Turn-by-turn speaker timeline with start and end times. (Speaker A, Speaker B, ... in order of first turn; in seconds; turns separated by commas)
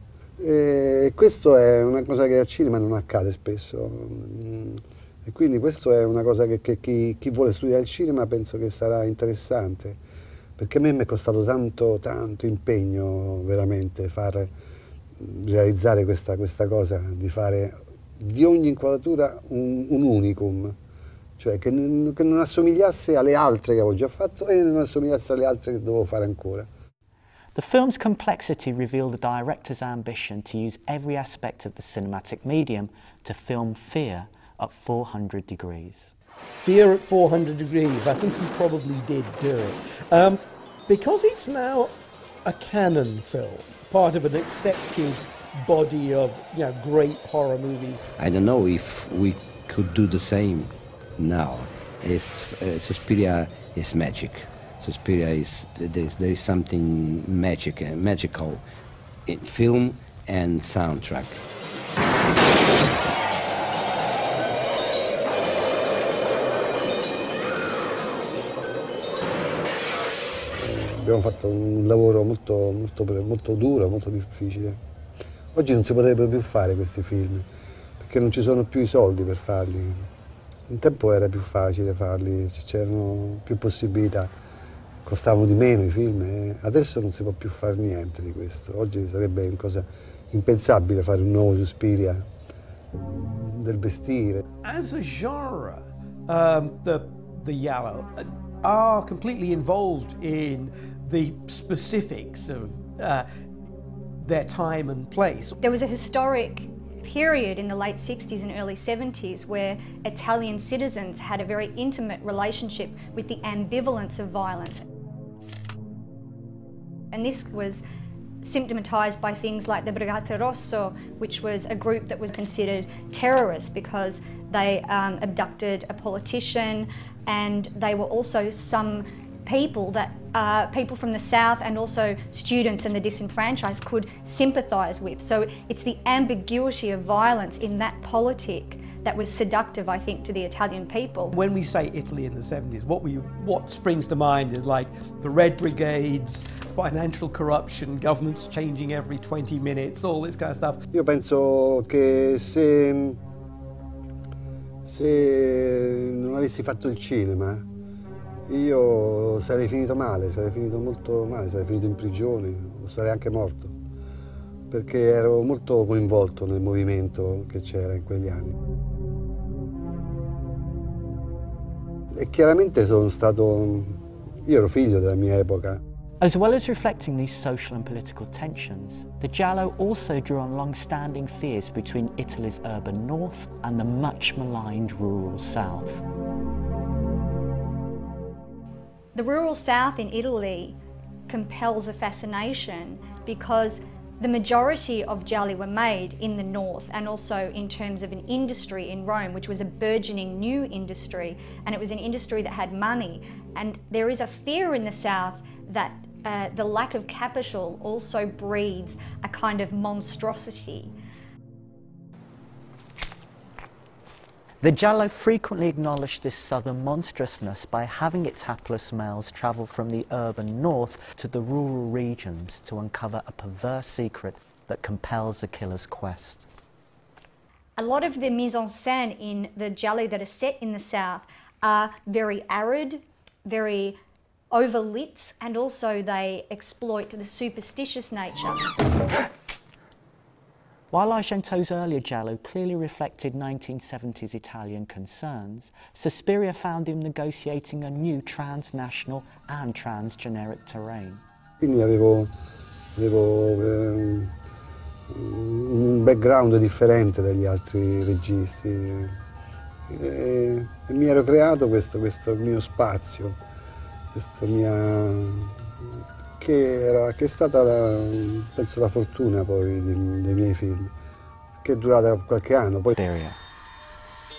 Speaker A: 0.4-10.0, Speaker A: 10.6-14.5, Speaker A: 15.2-20.8, Speaker A: 21.4-26.7, Speaker B: 27.6-36.1, Speaker C: 36.5-41.9, Speaker C: 42.5-48.0, Speaker D: 48.2-58.6, Speaker D: 59.3-61.4, Speaker A: 70.5-74.8, Speaker A: 75.5-77.5, Speaker A: 78.0-80.1, Speaker A: 80.7-84.3, Speaker A: 85.0-92.2, Speaker A: 92.9-94.4, Speaker C: 94.6-103.3, Speaker C: 104.2-105.5, Speaker E: 105.6-114.8, Speaker E: 117.1-117.8, Speaker E: 118.4-141.3, Speaker C: 141.3-150.8, Speaker A: 150.9-153.2, Speaker A: 154.8-157.7, Speaker A: 158.5-163.8, Speaker A: 164.7-168.6, Speaker A: 172.1-175.8, Speaker B: 176.2-186.0, Speaker E: 189.1-190.8, Speaker E: 191.3-210.9, Speaker B: 214.6-226.4, Speaker E: 227.8-234.0, Speaker E: 234.5-238.7, Speaker B: 240.9-251.2, Speaker A: 251.6-252.3, Speaker A: 253.0-254.3, Speaker A: 255.1-259.1, Speaker A: 259.9-263.4, Speaker A: 264.1-265.6, Speaker A: 266.4-270.9, Speaker A: 271.6-273.0, Speaker B: 273.0-273.4